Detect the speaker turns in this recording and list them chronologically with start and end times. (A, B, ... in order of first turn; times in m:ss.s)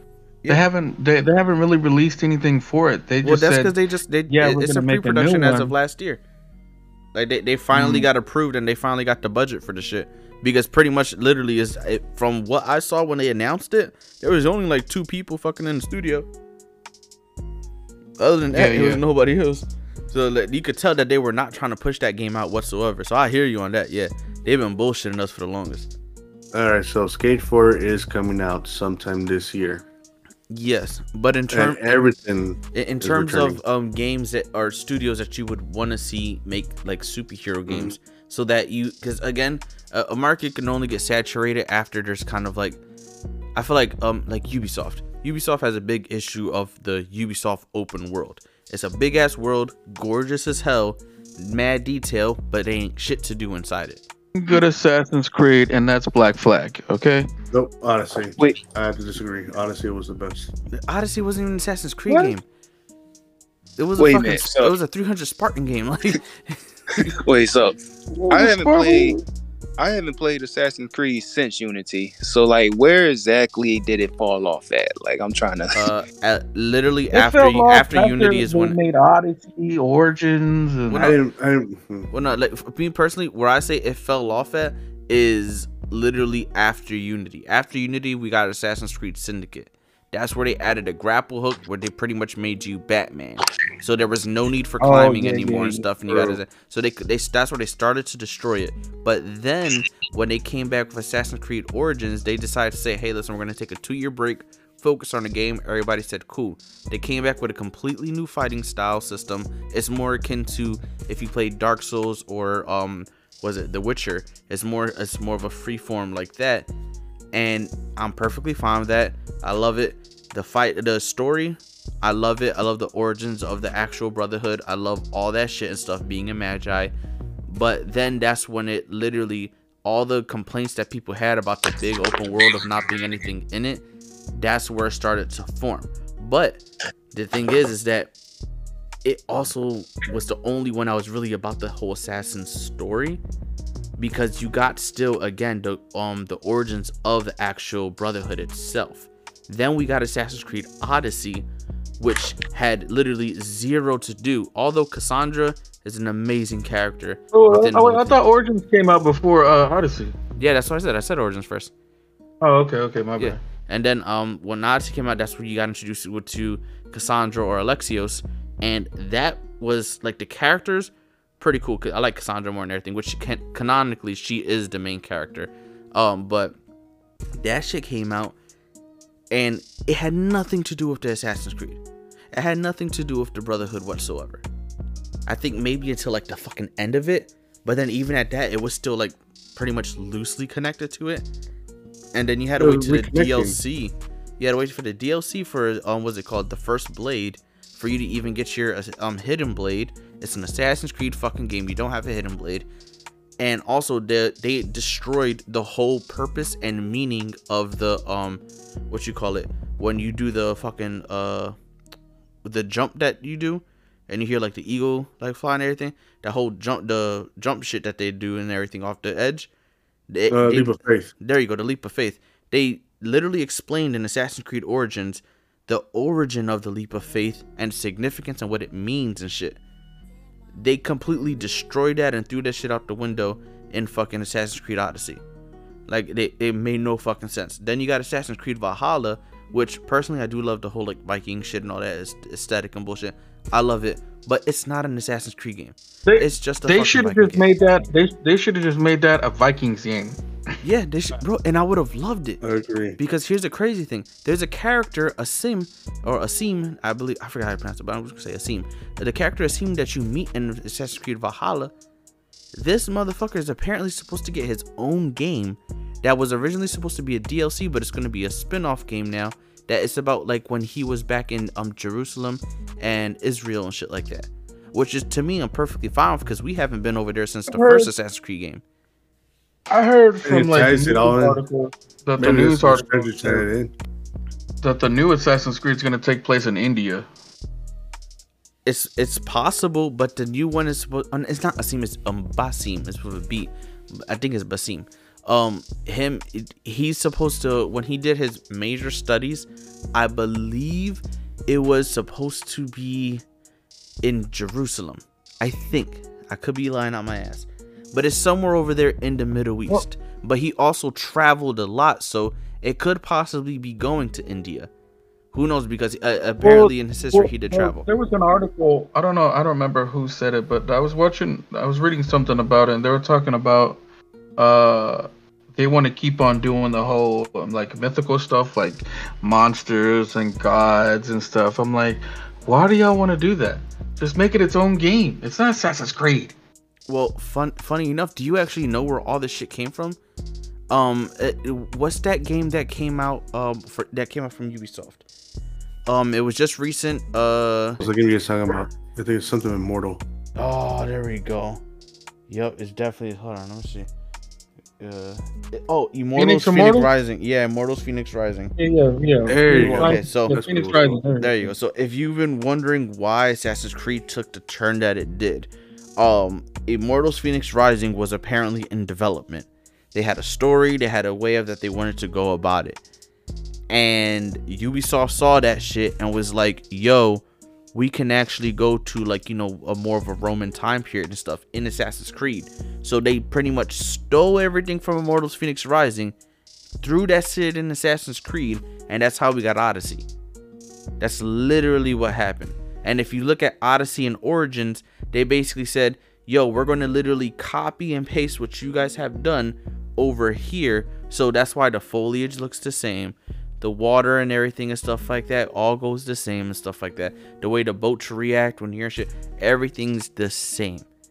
0:00.5-0:03.7 A
0:03.2-0:06.2 B
0:04.3-0:05.7 A
0:07.1-0:16.3 B
0:07.7-0:08.0 A
0:18.2-0:25.9 B
0:18.5-0:19.0 A
0:26.5-0:29.8 C
0:30.5-0:32.0 B
0:31.5-0:33.6 C
0:32.7-0:42.8 B
0:37.7-0:38.0 C
0:43.6-0:54.0 B
0:54.4-0:57.3 A
0:57.5-1:00.5 C
1:00.7-1:02.4 B
1:03.8-1:07.0 B
1:04.0-1:04.8 D
1:07.0-1:09.2 D
1:08.1-1:09.2 A
1:09.8-1:15.9 D
1:15.8-1:18.8 B
1:17.1-1:21.2 A
1:20.9-1:21.2 B
1:21.0-1:22.1 C
1:22.1-1:56.7 B
1:34.8-1:36.0 A
1:57.3-2:06.9 B
2:07.5-2:18.1 B
2:19.0-2:23.2 B
2:24.0-2:31.5 B
2:32.0-2:38.2 B
2:37.3-2:40.2 A
2:40.4-2:41.7 B
2:42.4-2:43.4 A
2:43.2-2:56.6 B
2:57.4-2:58.4 B
2:59.3-3:01.8 B
3:02.3-3:04.4 B
3:05.3-3:11.3 B
3:12.1-3:22.7 B
3:12.6-3:13.6 C
3:23.4-3:31.6 B
3:32.4-3:39.5 B
3:40.1-3:49.6 B
3:40.3-3:41.1 C
3:50.6-3:55.2 B
3:55.9-4:07.5 B
4:06.1-4:10.2 A
4:10.6-4:12.4 B
4:12.4-4:13.0 C
4:13.0-4:21.7 B
4:22.6-4:38.6 B
4:37.5-4:37.9 A
4:39.7-4:43.5 A
4:40.2-4:41.4 C
4:42.2-4:43.7 C
4:44.6-4:47.1 A
4:48.7-5:03.2 B
5:04.0-5:14.7 B
5:15.3-5:17.9 B
5:16.4-5:23.8 A
5:24.4-5:36.3 A
5:36.9-5:40.0 B
5:40.7-5:45.0 B
5:45.9-5:47.8 B
5:47.8-5:50.0 C
5:50.4-5:51.6 B
5:52.3-5:53.9 B
5:54.8-5:58.5 B
5:56.2-5:56.9 A
5:58.6-6:01.5 A
5:59.3-6:01.0 C
5:59.5-6:00.4 B
6:01.2-6:12.8 B
6:13.7-6:26.2 B
6:26.8-6:30.1 B
6:31.0-6:50.9 B